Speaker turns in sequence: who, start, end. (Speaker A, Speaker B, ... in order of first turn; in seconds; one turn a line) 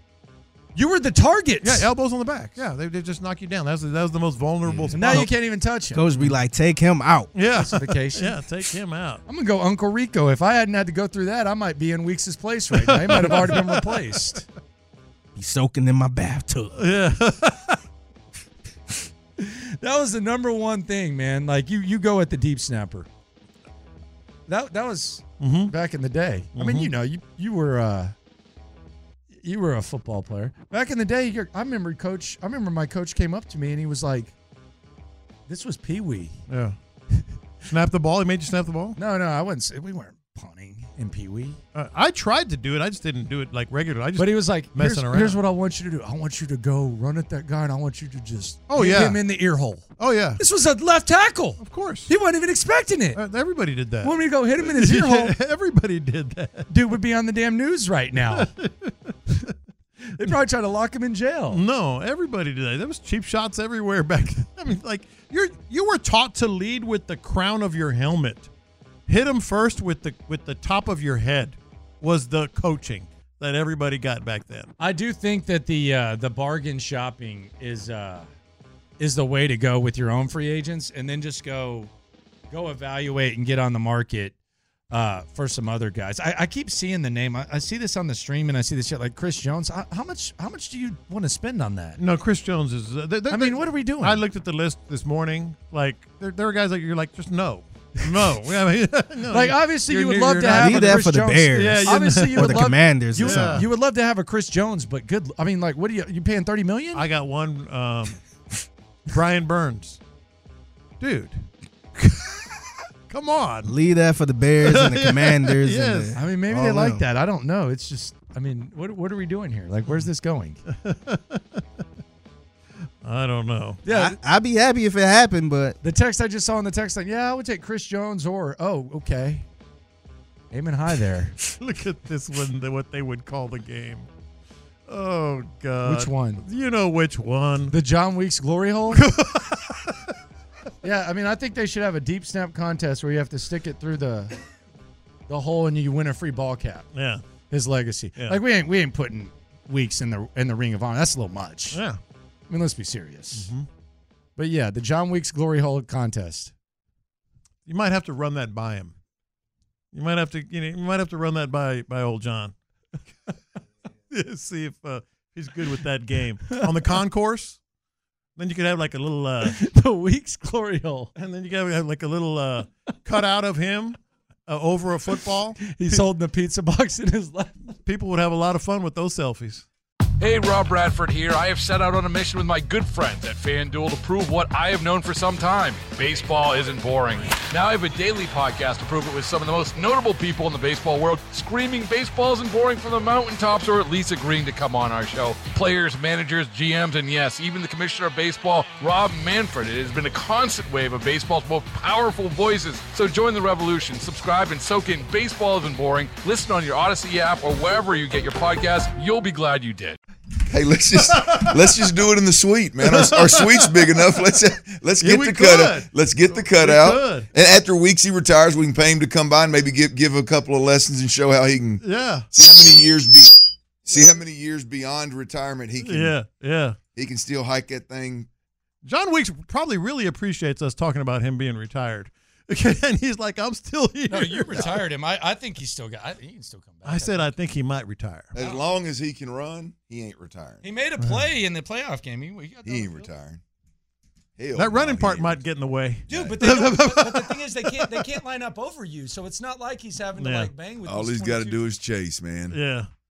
Speaker A: 0.8-1.9
Speaker B: 1.6-5.3
Speaker C: 4.7-5.3
Speaker A: 4.9-6.0
Speaker C: 5.9-7.3
Speaker B: 7.3-9.2
Speaker A: 7.6-8.4
Speaker A: 9.3-14.4
Speaker B: 12.7-14.2
Speaker C: 15.4-16.8
Speaker B: 16.8-17.8
Speaker A: 19.4-23.1
Speaker A: 24.5-28.1
Speaker B: 25.4-25.7
Speaker B: 26.6-26.9
Speaker A: 29.3-34.3
Speaker A: 35.5-36.4
Speaker B: 36.5-36.8
Speaker B: 37.6-39.0
Speaker A: 39.0-41.6
Speaker B: 41.7-45.4
Speaker A: 44.2-49.9
Speaker B: 48.7-49.2
Speaker B: 50.0-50.4
Speaker A: 50.4-53.2
Speaker B: 51.6-52.1
Speaker B: 53.1-56.7
Speaker A: 54.0-55.3
Speaker A: 56.7-58.5
Speaker B: 58.2-59.5
Speaker A: 60.2-61.6
Speaker B: 61.5-68.5
Speaker B: 69.1-74.7
Speaker A: 74.8-78.3
Speaker A: 79.0-81.9
Speaker A: 82.5-84.3
Speaker A: 84.9-92.0
Speaker B: 92.0-103.7
Speaker A: 93.3-94.2
Speaker A: 99.3-107.0
Speaker C: 100.5-103.7
Speaker B: 106.9-108.2
Speaker B: 109.1-110.0
Speaker B: 111.0-113.7
Speaker C: 113.6-117.0
Speaker B: 114.6-116.1
Speaker A: 116.2-120.6
Speaker B: 120.7-121.6
Speaker B: 123.0-123.8
Speaker A: 123.8-124.2
Speaker C: 123.9-125.8
Speaker A: 125.8-129.5
Speaker A: 130.5-131.4
Speaker B: 131.4-134.1
Speaker B: 134.9-137.8
Speaker A: 135.8-136.4
Speaker A: 137.7-139.1
Speaker B: 138.9-139.9
Speaker A: 140.8-144.3
Speaker A: 145.3-146.9
Speaker B: 146.9-147.2
Speaker A: 147.5-151.8
Speaker B: 151.7-152.0
Speaker A: 152.5-153.5
Speaker B: 153.4-153.7
Speaker A: 154.4-156.5
Speaker B: 157.7-158.9
Speaker B: 159.9-162.5
Speaker B: 164.1-167.6
Speaker B: 168.4-169.6
Speaker A: 169.5-171.1
Speaker B: 171.2-176.0
Speaker A: 175.7-177.7
Speaker B: 177.8-179.7
Speaker D: 180.2-210.0
Speaker E: 210.5-223.3
Speaker B: 211.2-211.6
Speaker B: 212.8-214.4
Speaker B: 215.0-217.3
Speaker B: 221.8-222.3
Speaker E: 223.8-226.1
Speaker B: 225.8-226.8
Speaker E: 226.9-228.3
Speaker B: 228.8-234.8
Speaker A: 234.1-237.3
Speaker B: 236.8-238.3
Speaker E: 238.3-240.6
Speaker A: 240.6-243.1
Speaker B: 241.0-241.3
Speaker E: 242.7-243.4
Speaker E: 244.4-245.4
Speaker B: 244.5-248.1
Speaker A: 246.1-251.7
Speaker B: 250.2-250.5
Speaker E: 250.8-252.6
Speaker B: 252.5-252.9